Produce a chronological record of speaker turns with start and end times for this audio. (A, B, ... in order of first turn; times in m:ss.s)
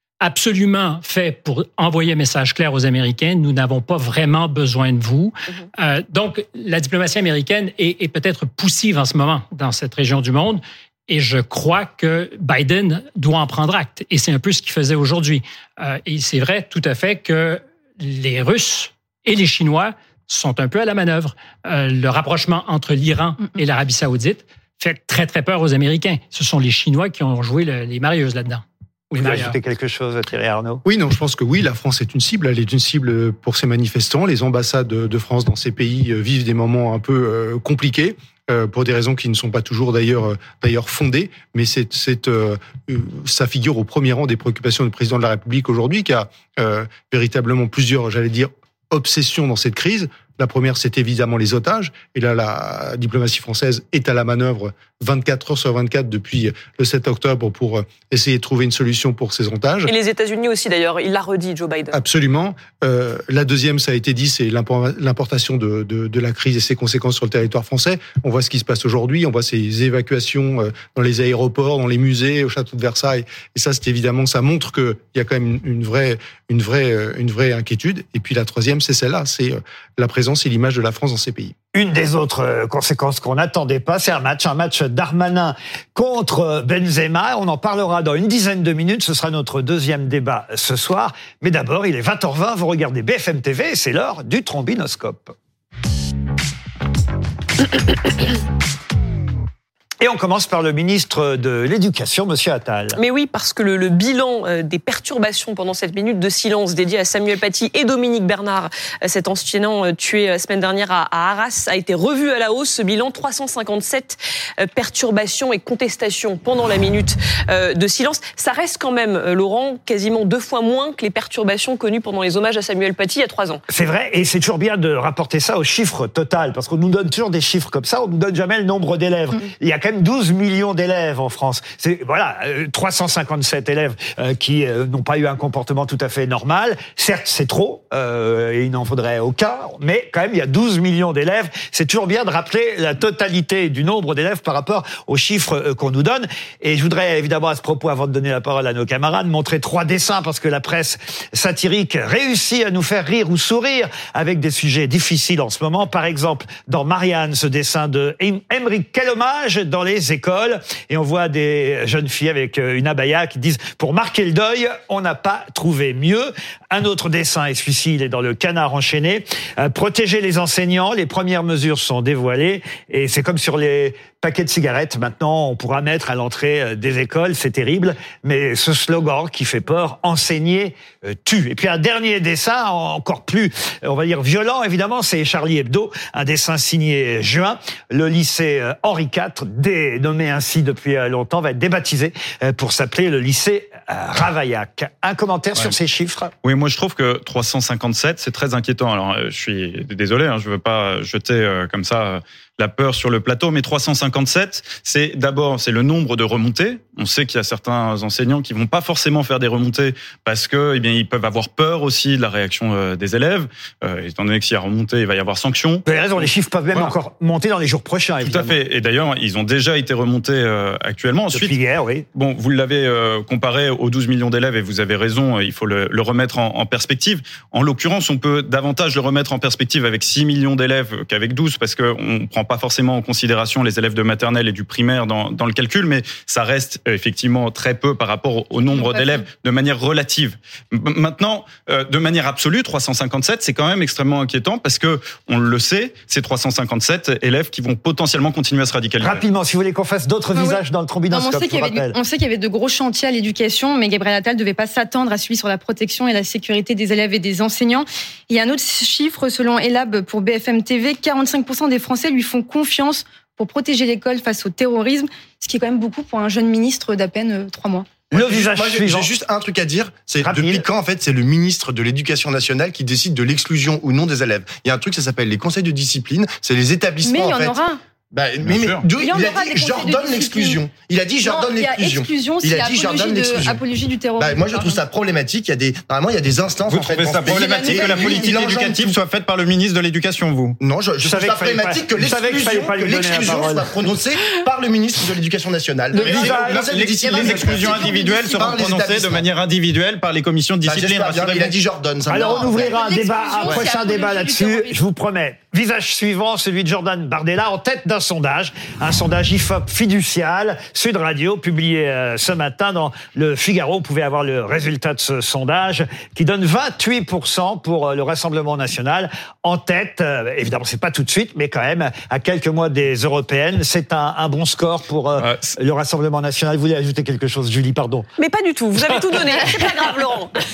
0:00.2-0:29.5 A
0:29.1-0:30.8 B
0:30.8-0:59.9 C
0:59.9-1:02.0 D
1:01.9-1:21.6 C
1:21.7-1:35.3 B
1:40.0-1:43.0 B
1:43.0-2:03.6 D
2:03.7-3:16.3 B
3:16.4-3:36.9 E
3:35.8-3:38.6 B
3:38.2-3:41.6 E
3:41.3-3:42.0 B
3:42.1-4:09.2 E
3:58.6-3:59.2 F
4:09.0-4:12.0 B
4:10.3-4:28.0 F
4:28.1-4:29.1 B
4:28.1-4:37.6 G
4:30.2-4:30.6 B
4:37.0-4:37.8 F
4:38.1-4:43.6 G
4:38.4-4:38.8 E
4:38.9-4:40.6 F
4:41.2-4:44.8 F
4:44.2-4:49.0 G
4:46.7-4:50.6 E
4:47.5-4:48.2 F
4:50.6-4:59.2 G
4:51.0-4:53.8 B
4:55.9-4:57.2 B
4:56.0-4:56.3 F
4:56.0-5:01.6 E
4:56.8-4:58.6 F
5:00.6-5:03.7 G
5:02.0-5:28.1 B
5:02.1-5:04.8 F
5:25.2-5:25.6 E
5:28.2-5:30.4 D
5:29.1-5:29.5 B